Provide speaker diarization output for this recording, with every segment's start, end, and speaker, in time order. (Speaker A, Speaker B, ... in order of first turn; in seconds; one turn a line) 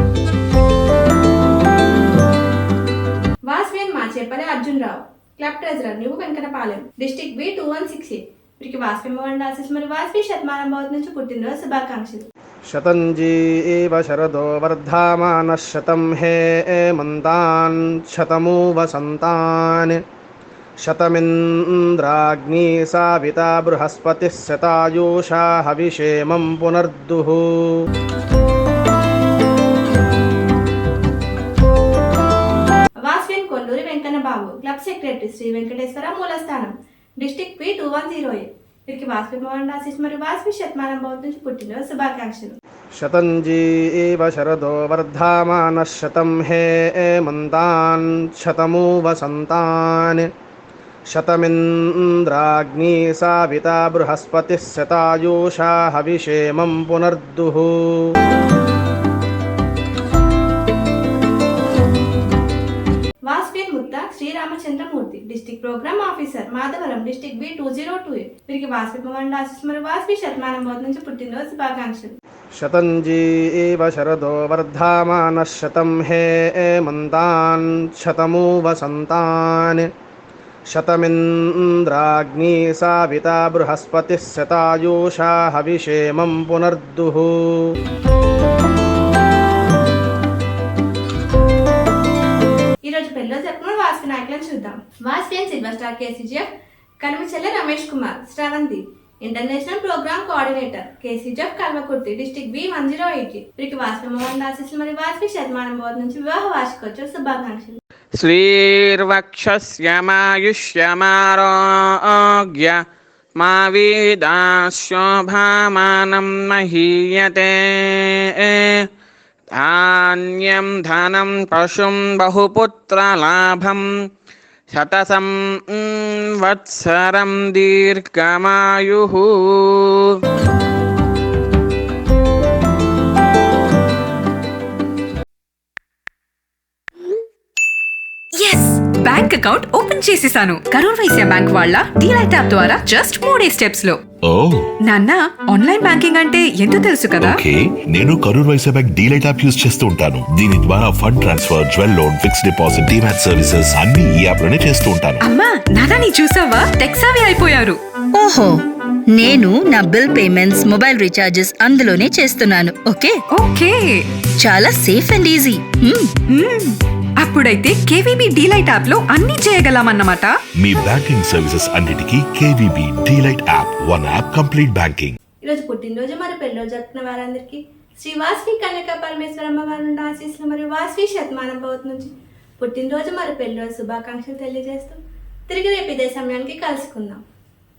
Speaker A: 3.5-12.3
Speaker B: 12.7-20.0
Speaker B: 20.8-27.8
Speaker A: 33.1-42.6
Speaker B: 42.9-50.3
Speaker B: 51.1-58.1
Speaker A: 63.3-72.2
Speaker B: 72.5-79.9
Speaker B: 80.7-87.7
Speaker A: 92.8-96.5
Speaker A: 97.0-107.8
Speaker C: 108.2-112.8
Speaker C: 113.4-118.9
Speaker C: 119.5-123.8
Speaker C: 124.7-130.2
Speaker D: 138.3-144.0
Speaker E: 144.2-144.7
Speaker D: 144.8-147.4
Speaker E: 147.2-155.2
Speaker D: 155.2-157.8
Speaker F: 158.2-158.5
Speaker F: 159.1-163.2
Speaker D: 163.3-164.0
Speaker F: 164.4-166.0
Speaker D: 166.3-170.3
Speaker E: 170.6-175.2
Speaker A: 175.4-187.2